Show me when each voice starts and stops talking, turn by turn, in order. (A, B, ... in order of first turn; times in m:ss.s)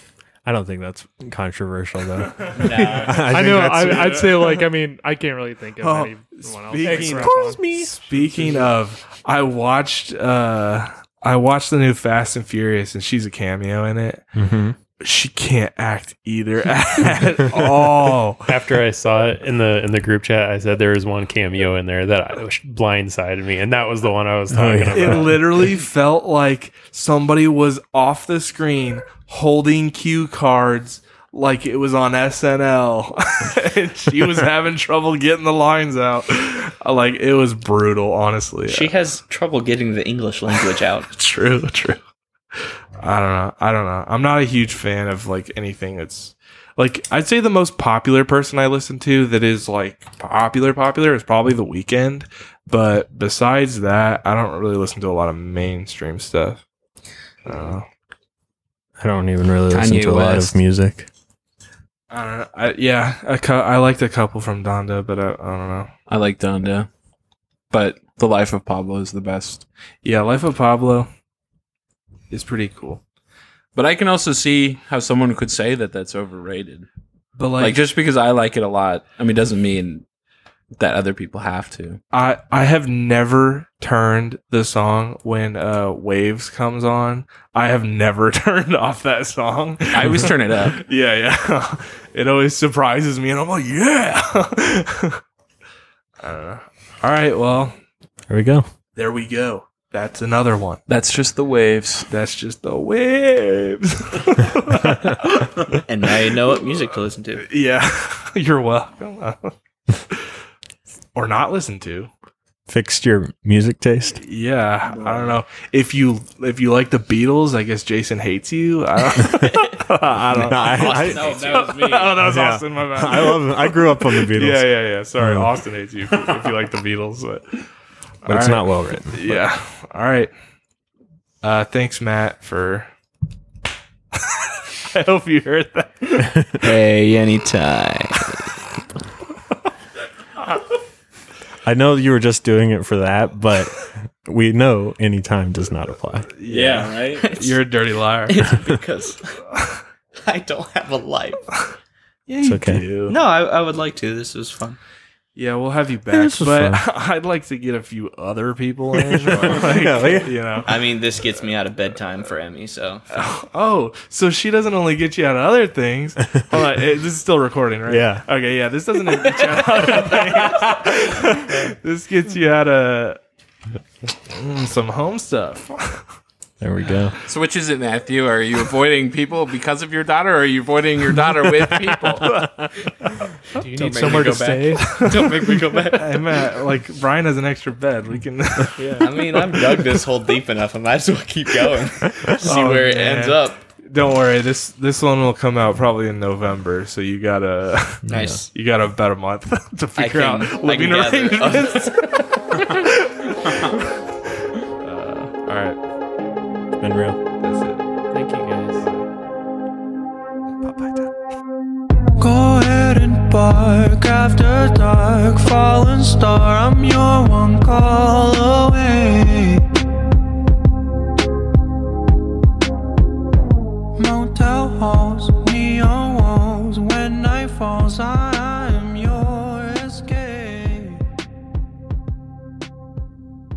0:00.4-0:04.4 A
0:02.5-0:03.4 B
0:03.3-0:07.7 C
0:03.8-0:04.6 D
0:05.8-0:07.4 D
0:06.8-0:08.7 A
0:08.0-0:14.2 D
0:14.3-0:14.8 A
0:15.0-0:18.5 D
0:18.5-0:25.4 E
0:24.5-0:25.5 A
0:24.9-0:38.9 D
0:38.7-0:41.1 B
0:40.5-0:42.0 D
0:43.0-0:56.6 D
0:57.4-0:57.8 D
0:59.0-1:01.1 A
0:59.7-1:00.5 F
1:02.1-1:05.9 D
1:06.1-1:06.9 F
1:07.7-1:09.6 F
1:10.0-1:11.1 D
1:12.3-1:13.0 D
1:13.7-1:16.9 F
1:17.4-1:17.8 D
1:17.6-1:20.0 F
1:20.8-1:22.0 F
1:22.1-1:35.2 D
1:29.9-1:30.8 F
1:36.2-1:37.7 D
1:38.3-1:38.6 A
1:39.0-1:40.8 D
1:40.9-1:42.1 F
1:42.1-1:45.8 D
1:45.7-1:47.4 B
1:47.4-1:49.5 D
1:51.1-1:52.1 D
1:52.7-1:54.2 A
1:54.2-2:07.6 D
1:54.9-1:55.4 F
1:59.2-1:59.5 A
1:59.4-1:59.8 B
2:00.3-2:01.4 A
2:00.3-2:01.9 B
2:00.6-2:02.3 F
2:02.2-2:05.5 A
2:08.2-2:09.3 A
2:08.2-2:10.3 D
2:11.4-2:12.9 D
2:14.1-2:16.4 D
2:16.2-2:16.6 A
2:16.6-2:18.5 B
2:21.6-2:26.3 A
2:26.4-2:28.5 D
2:26.5-2:27.3 F
2:27.2-2:27.6 B
2:28.3-2:29.4 B
2:29.5-2:29.8 D
2:30.2-2:31.5 B
2:32.3-2:33.2 D
2:32.4-2:32.8 A
2:33.1-2:34.8 B
2:35.4-2:40.7 D
2:36.1-2:36.8 A
2:39.0-2:40.4 A
2:39.3-2:39.9 B
2:40.6-2:43.0 B
2:43.1-2:53.2 D
2:47.9-2:48.2 A
2:49.2-2:50.8 B
2:54.3-2:56.0 D
2:56.6-2:57.2 A
2:57.2-3:02.3 F
3:02.2-3:02.7 D
3:03.6-3:05.1 C
3:03.6-3:06.4 B
3:04.8-3:10.1 D
3:08.8-3:09.0 C
3:09.0-3:13.6 B
3:12.3-3:23.8 D
3:18.1-3:18.4 A
3:18.1-3:18.5 B
3:20.0-3:22.6 B
3:24.8-3:25.8 D
3:26.8-3:27.2 A
3:27.4-3:27.8 D
3:28.1-3:28.8 E
3:28.8-3:29.1 D
3:30.6-3:31.0 D
3:32.2-3:39.6 G
3:44.0-3:51.0 G